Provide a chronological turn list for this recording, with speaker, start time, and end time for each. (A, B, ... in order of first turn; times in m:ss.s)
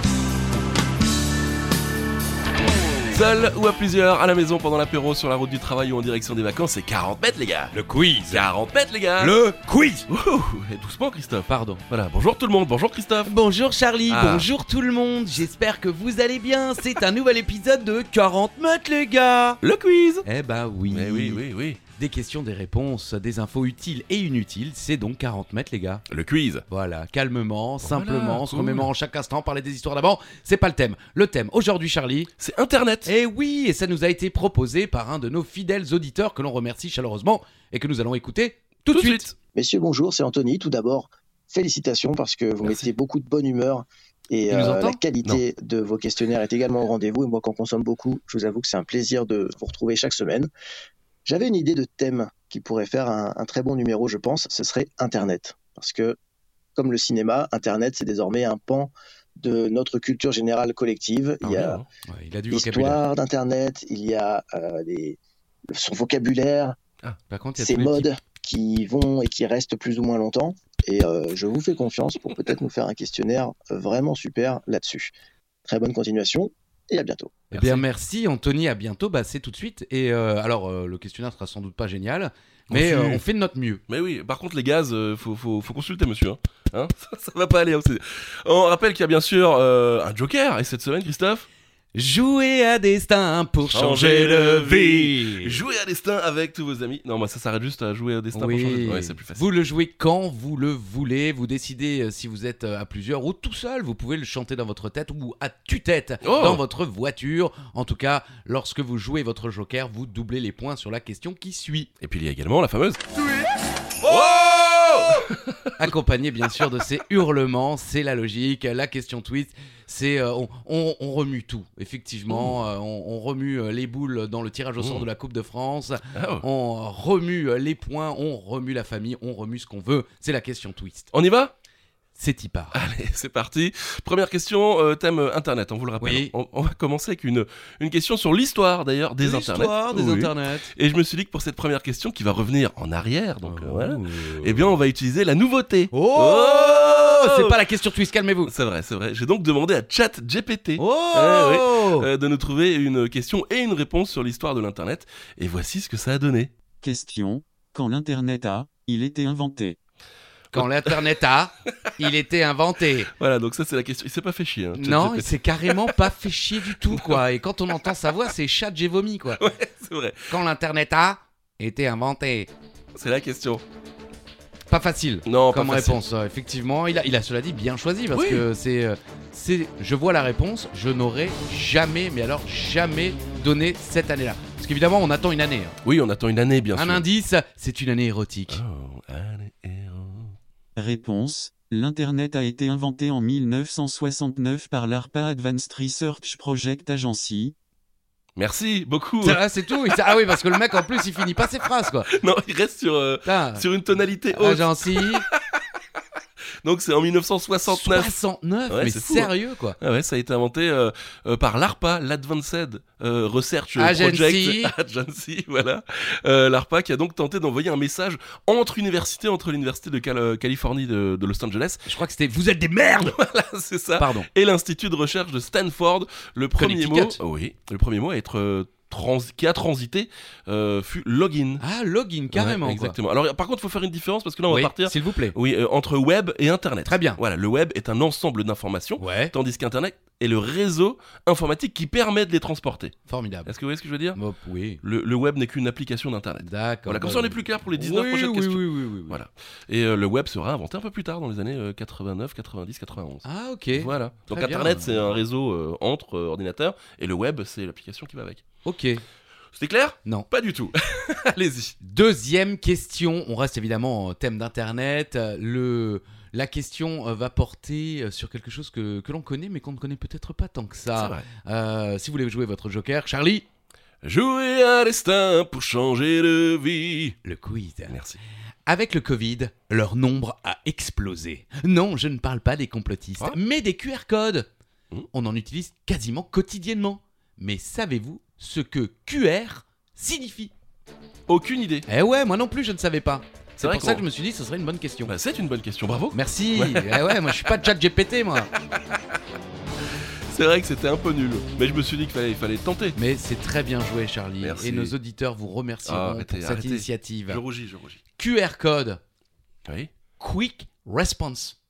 0:03.1-0:07.7 A
0:07.7-0:08.5 B
0:08.3-0:09.4 A
0:09.2-0:10.0 B
0:10.1-0:13.3 A
0:11.5-0:11.8 B
0:13.2-0:19.6 B
0:14.1-0:14.5 A
0:19.6-0:20.2 A
0:20.2-0:26.0 B
0:20.9-0:21.8 A
0:26.1-0:26.6 A
0:26.7-0:32.3 B
0:27.8-0:28.9 A
0:32.4-0:33.1 A
0:33.0-0:39.2 B
0:38.9-0:39.4 A
0:39.5-0:50.5 C
0:42.6-0:42.9 A
0:44.5-0:45.0 B
0:51.2-0:56.2 C
0:56.8-1:01.8 C
1:01.4-1:01.8 A
1:02.0-1:03.0 B
1:02.5-1:06.8 C
1:07.3-1:08.1 B
1:07.6-1:15.1 C
1:15.6-1:17.4 C
1:17.5-1:23.8 B
1:17.5-1:17.8 A
1:22.7-1:23.2 A
1:23.9-1:31.4 A
1:31.9-1:35.6 B
1:33.7-1:39.4 A
1:38.3-1:51.9 B
1:46.2-1:46.6 A
1:52.0-1:53.0 A
1:54.0-1:55.8 A
1:54.0-1:54.4 B
1:55.8-2:11.1 B
2:04.8-2:05.0 A
2:06.1-2:06.4 A
2:11.1-2:11.5 A
2:12.2-2:12.8 B
2:12.7-2:27.6 A
2:16.0-2:16.3 B
2:19.2-2:20.7 B
2:23.4-2:24.6 B
2:25.9-2:28.5 B
2:28.5-2:36.5 A
2:30.8-2:32.1 B
2:36.8-2:39.8 D
2:40.5-2:43.1 B
2:40.5-2:41.0 A
2:43.1-2:46.1 A
2:44.7-2:49.4 B
2:46.6-2:47.2 A
2:49.4-2:50.4 A
2:50.3-2:52.5 B
2:52.9-2:53.6 A
2:54.7-3:05.8 B
2:55.2-2:56.0 A
2:58.1-2:58.4 A
3:05.8-3:07.0 A
3:06.7-3:08.6 B
3:08.5-3:10.4 A
3:10.8-3:17.5 D
3:18.4-3:21.0 A
3:19.2-3:22.1 B
3:22.0-3:25.6 A
3:23.2-3:23.6 B
3:24.3-3:25.2 B
3:26.6-3:28.1 A
3:27.7-3:29.8 B
3:28.7-3:41.9 A
3:33.8-3:34.7 B
3:41.8-3:43.2 B
3:43.0-3:51.6 A
3:44.0-3:44.3 B
3:46.6-3:47.2 B
3:51.6-3:53.0 B
3:52.3-4:02.9 A
3:54.5-3:55.4 B
3:56.8-3:57.2 B
3:59.0-3:59.3 B
4:03.1-4:03.5 B
4:03.4-4:04.2 A
4:04.1-4:04.8 B
4:04.8-4:18.4 A
4:06.4-4:09.2 B
4:13.2-4:15.0 B
4:18.6-4:19.0 B
4:19.5-4:21.8 A
4:21.8-4:33.4 B
4:30.9-4:31.2 A
4:34.0-4:37.2 A
4:37.2-4:37.9 B
4:37.9-4:38.2 A
4:38.6-4:44.5 B
4:45.1-4:50.5 B
4:51.3-4:51.8 A
4:51.8-4:55.1 B
4:53.6-4:54.0 A
4:55.1-4:57.5 A
4:56.1-4:58.5 B
5:00.3-5:03.0 A
5:03.0-5:07.4 B
5:04.4-5:04.9 A
5:05.8-5:08.0 A
5:08.2-5:09.0 B
5:09.6-5:09.9 A
5:10.2-5:11.6 B